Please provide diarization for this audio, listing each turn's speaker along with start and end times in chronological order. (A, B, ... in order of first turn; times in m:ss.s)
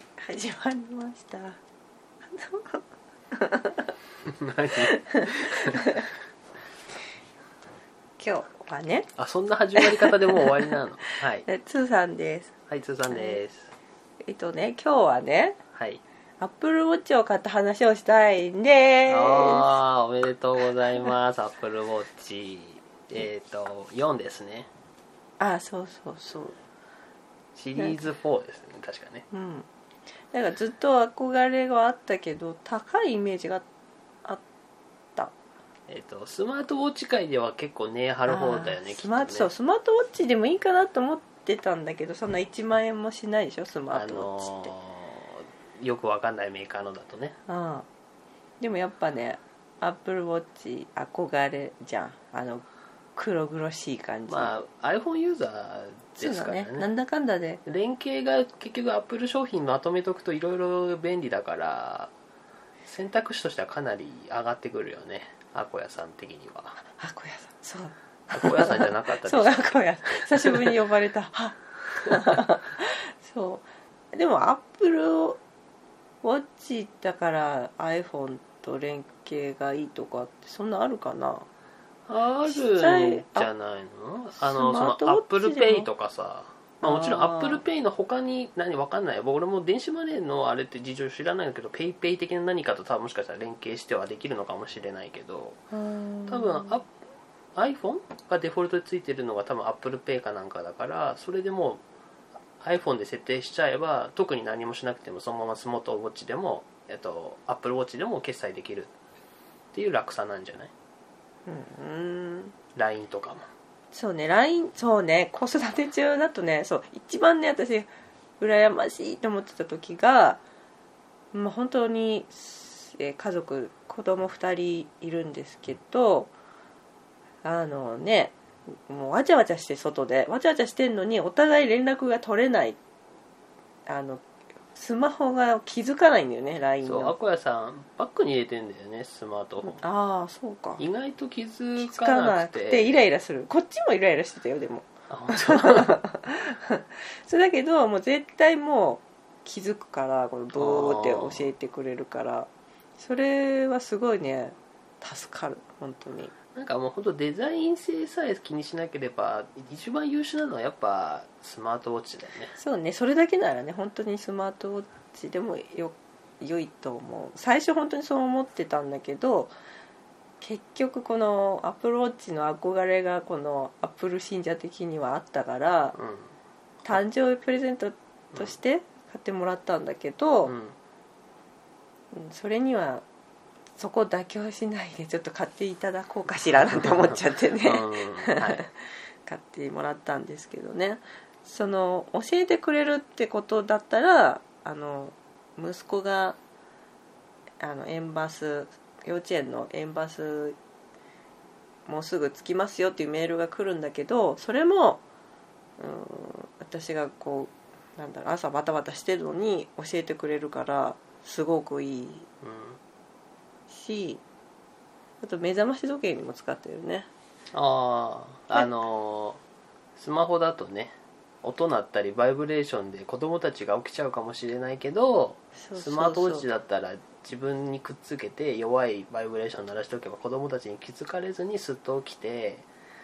0:00.2-0:01.6 A
0:02.3-0:02.8 A
0:03.3-0:03.9 A
0:04.3-0:05.9 B
0:04.8-0:06.1 A
0:08.2-0:09.1 A
0:09.2-0:11.4 B
0:09.8-0:10.5 A
0:11.0-0:12.5 A
0:12.7-0:13.7 B
0:13.1-0:13.4 A
0:14.2-0:15.6 A
0:15.7-0:16.0 B
0:16.4-0:19.8 A
0:19.1-0:24.7 B
0:25.4-0:26.5 A
0:27.5-0:29.2 B
0:29.3-0:29.7 A
0:30.3-0:33.6 A
0:35.9-0:39.5 B
0:38.2-0:44.7 A
0:43.9-0:47.3 B
0:47.5-0:47.9 A
0:48.6-0:52.6 A
0:53.2-0:54.5 A
0:54.3-0:56.9 B
0:56.2-0:57.6 A
0:57.6-1:02.1 B
1:02.8-1:06.8 B
1:06.9-1:15.4 A
1:08.3-1:10.8 B
1:16.2-1:21.4 A
1:22.1-1:35.6 B
1:22.5-1:23.5 A
1:24.4-1:25.9 A
1:26.8-1:27.6 A
1:35.7-1:36.8 A
1:36.3-1:36.9 B
1:37.6-1:41.8 B
1:42.6-1:48.9 B
1:49.7-1:50.7 B
1:51.5-1:52.5 A
1:52.7-1:53.4 B
1:53.9-1:57.9 A
1:58.4-2:00.4 A
2:01.3-2:06.3 A
2:07.4-2:08.3 A
2:08.9-2:12.8 A
2:13.9-2:17.1 A
2:16.8-2:19.8 B
2:19.6-2:20.8 A
2:20.8-2:22.9 B
2:21.8-2:36.3 A
2:25.1-2:26.0 B
2:30.6-2:31.5 B
2:36.5-2:42.5 B
2:42.6-2:49.5 A
2:50.4-2:56.0 A
2:55.9-2:56.3 B
2:56.8-3:00.5 A
3:00.4-3:00.7 B
3:02.1-3:03.0 A
3:03.8-3:16.4 A
3:06.6-3:08.6 B
3:17.6-3:20.6 A
3:21.9-3:25.0 A
3:25.8-3:32.3 A
3:32.4-3:32.8 B
3:33.7-3:34.2 A
3:35.2-3:37.1 A
3:37.5-3:39.4 B
3:40.0-3:52.6 B
3:45.6-3:46.5 A